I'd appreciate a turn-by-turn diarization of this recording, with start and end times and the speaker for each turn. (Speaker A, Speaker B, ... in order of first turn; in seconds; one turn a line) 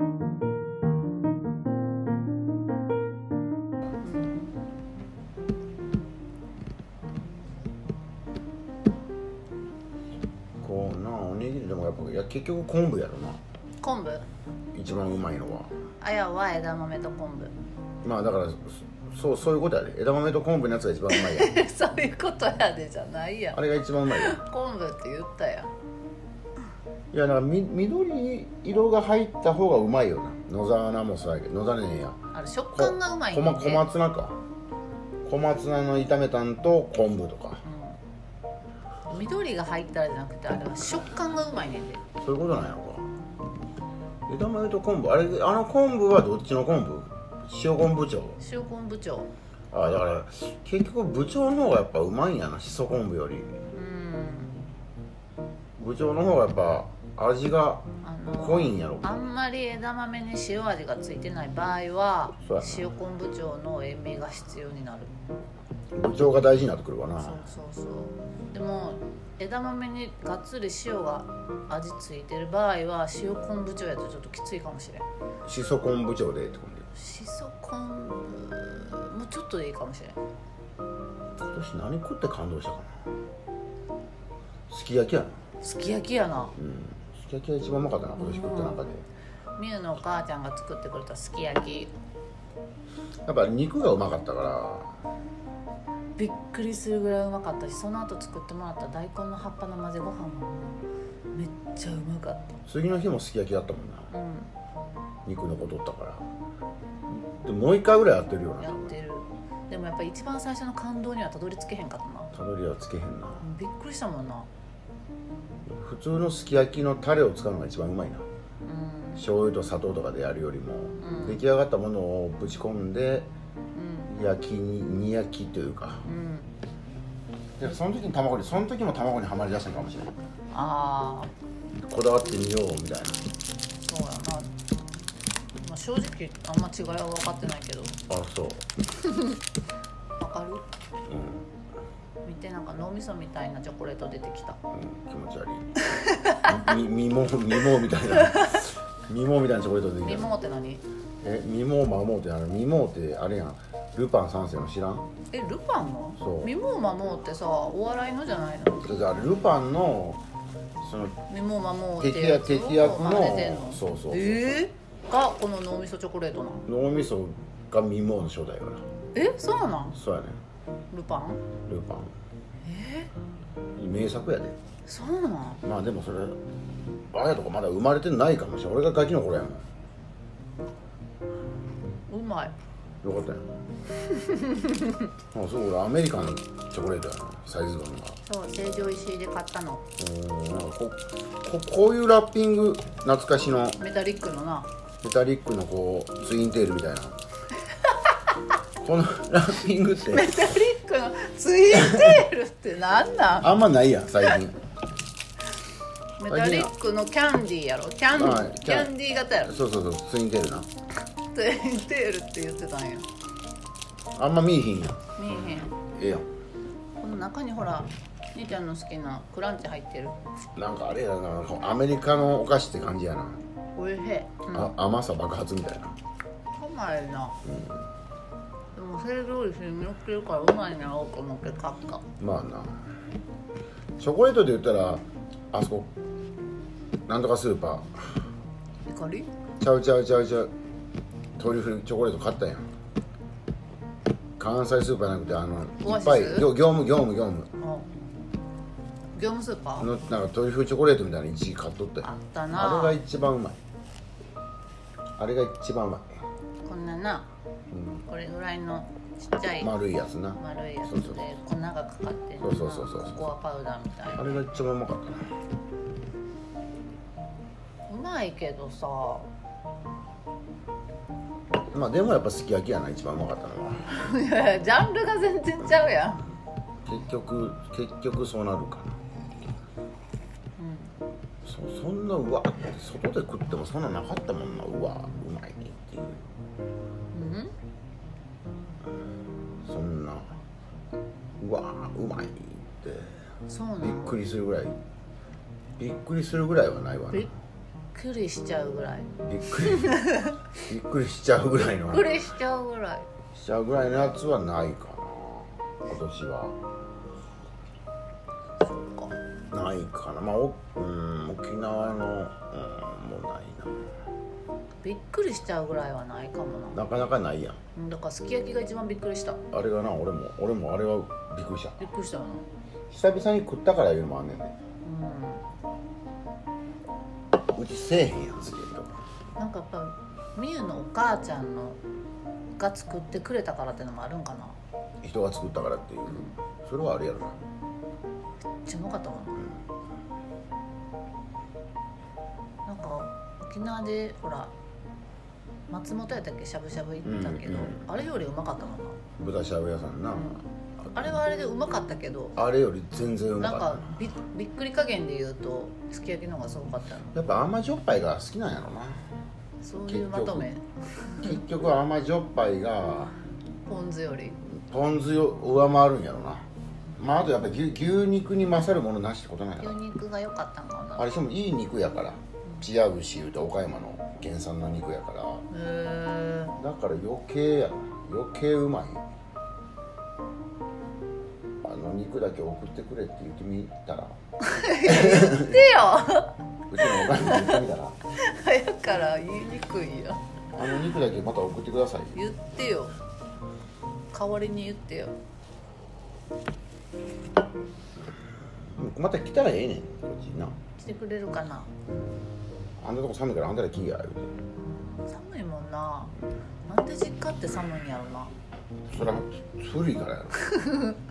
Speaker A: 4.0-4.5
Speaker B: 10.6-13.4
Speaker A: 13.8-14.2
Speaker B: 14.7-15.7
Speaker A: 16.0-17.5
Speaker B: 18.0-21.5
Speaker A: 21.1-25.7
Speaker B: 23.5-24.4
Speaker B: 27.1-32.2
Speaker A: 32.3-33.9
Speaker B: 32.7-34.4
Speaker B: 35.2-37.6
Speaker A: 37.6-38.0
Speaker A: 39.1-42.0
Speaker B: 42.2-43.1
Speaker B: 44.3-48.4
Speaker A: 48.4-49.3
Speaker B: 49.7-53.5
Speaker A: 53.7-54.5
Speaker B: 55.8-57.9
Speaker A: 58.0-65.1
Speaker B: 58.4-59.1
Speaker B: 62.4-62.9
Speaker B: 65.9-67.4
Speaker A: 67.2-75.1
Speaker B: 75.4-76.9
Speaker A: 76.9-80.2
Speaker B: 81.4-83.0
Speaker B: 84.7-85.4
Speaker A: 85.6-86.5
Speaker B: 86.5-89.0
Speaker A: 88.2-88.8
Speaker A: 89.6-91.9
Speaker B: 93.2-94.9
Speaker A: 96.2-100.8
Speaker A: 101.3-102.6
Speaker B: 102.7-104.1
Speaker A: 104.1-104.5
Speaker B: 105.2-106.3
Speaker B: 107.1-108.9
Speaker A: 108.6-112.3
Speaker B: 112.3-113.4
Speaker A: 113.4-114.5
Speaker B: 115.7-118.2
Speaker A: 118.6-119.2
Speaker B: 119.2-123.3
Speaker A: 121.0-121.4
Speaker A: 123.7-124.1
Speaker B: 124.1-126.1
Speaker A: 126.0-126.5
Speaker B: 127.6-130.2
Speaker A: 130.5-131.3
Speaker B: 131.8-133.2
Speaker A: 133.8-134.5
Speaker A: 135.6-138.0
Speaker B: 138.1-138.7
Speaker A: 139.1-139.4
Speaker A: 140.2-140.6
Speaker B: 141.1-141.4
Speaker A: 142.2-144.6
Speaker B: 144.7-145.7
Speaker A: 145.9-146.6
Speaker B: 146.4-150.3
Speaker A: 150.0-150.8
Speaker B: 151.2-155.1
Speaker A: 155.3-158.9
Speaker B: 156.2-156.5
Speaker B: 158.8-160.2
Speaker B: 160.8-161.2
Speaker A: 161.3-166.7
Speaker B: 162.0-164.6
Speaker B: 166.7-168.8
Speaker A: 169.1-170.0
Speaker B: 169.9-170.4
Speaker A: 170.9-171.4
Speaker B: 171.6-172.1
Speaker A: 172.6-173.1
Speaker B: 173.8-174.6
Speaker A: 174.8-175.6
Speaker B: 175.6-176.4
Speaker B: 177.1-179.6
Speaker A: 182.1-182.5
Speaker B: 183.0-183.4
Speaker A: 184.1-185.1
Speaker B: 185.3-188.2
Speaker A: 188.2-189.8
Speaker B: 190.0-193.8
Speaker A: 193.8-194.7
Speaker B: 195.0-197.2
Speaker B: 198.8-200.5
Speaker A: 200.1-203.5
Speaker B: 201.7-202.2
Speaker B: 203.4-204.6
Speaker A: 206.2-209.5
Speaker B: 206.3-206.7
Speaker B: 208.1-210.7
Speaker A: 211.3-213.1
Speaker B: 214.1-215.1
Speaker A: 215.2-215.7
Speaker B: 215.7-216.3
Speaker A: 217.0-220.2
Speaker B: 220.6-223.4
Speaker A: 223.8-224.7
Speaker B: 224.5-226.0
Speaker A: 226.5-227.4
Speaker B: 227.4-227.8
Speaker A: 228.7-232.0
Speaker B: 232.2-232.8
Speaker B: 234.0-235.9
Speaker B: 237.1-238.2
Speaker A: 238.9-239.3
Speaker B: 239.6-240.5
Speaker B: 241.3-242.7
Speaker B: 244.4-247.5
Speaker A: 245.8-246.5
Speaker A: 247.6-247.9
Speaker A: 249.2-249.9
Speaker B: 249.8-253.6
Speaker A: 252.0-253.0
Speaker B: 255.2-256.2
Speaker A: 256.6-257.3
Speaker B: 257.7-258.0
Speaker A: 258.1-259.7
Speaker B: 259.6-261.2
Speaker A: 260.4-264.3
Speaker B: 262.4-263.3
Speaker B: 264.1-265.3
Speaker A: 267.9-269.3
Speaker B: 271.7-273.9
Speaker A: 273.9-276.2
Speaker B: 276.8-279.0
Speaker A: 280.6-280.9
Speaker B: 281.4-286.2
Speaker A: 287.1-287.5
Speaker B: 289.6-290.4
Speaker B: 291.4-293.2
Speaker A: 293.5-294.1
Speaker B: 293.8-294.8
Speaker B: 295.8-297.3
Speaker A: 297.9-300.4
Speaker B: 299.2-300.1
Speaker B: 300.7-302.2
Speaker A: 301.9-303.1
Speaker B: 303.3-306.6
Speaker A: 308.6-309.2
Speaker B: 309.5-313.9
Speaker A: 314.8-316.8
Speaker B: 316.7-317.6
Speaker A: 317.7-319.4
Speaker B: 319.5-321.9
Speaker A: 321.8-322.5
Speaker B: 322.9-324.5
Speaker A: 324.8-325.4
Speaker B: 327.5-328.9
Speaker A: 329.4-331.8
Speaker A: 332.6-334.6
Speaker B: 335.0-337.4
Speaker A: 336.1-336.4
Speaker A: 338.6-339.5
Speaker A: 342.6-344.5
Speaker A: 345.7-349.0
Speaker B: 347.0-347.8
Speaker B: 349.2-350.9
Speaker A: 350.1-350.4
Speaker A: 350.9-352.4
Speaker B: 352.4-353.9
Speaker A: 353.4-357.1
Speaker B: 357.1-359.0
Speaker A: 359.6-361.4
Speaker B: 359.8-360.5
Speaker B: 361.1-363.1
Speaker A: 363.6-364.4
Speaker B: 364.4-366.5
Speaker B: 367.0-369.8
Speaker A: 369.6-371.1
Speaker B: 371.0-375.4
Speaker A: 375.5-376.6
Speaker B: 376.6-379.0
Speaker B: 381.6-384.2
Speaker A: 384.4-387.6
Speaker B: 384.8-385.7
Speaker B: 386.7-388.0
Speaker A: 388.1-390.2
Speaker B: 390.5-392.2
Speaker A: 392.1-392.9
Speaker A: 394.1-395.1
Speaker B: 398.7-400.6
Speaker A: 400.8-401.7
Speaker B: 401.9-402.2
Speaker B: 402.8-404.3
Speaker A: 405.0-406.1
Speaker A: 406.7-408.3
Speaker B: 408.9-410.4
Speaker A: 410.5-410.9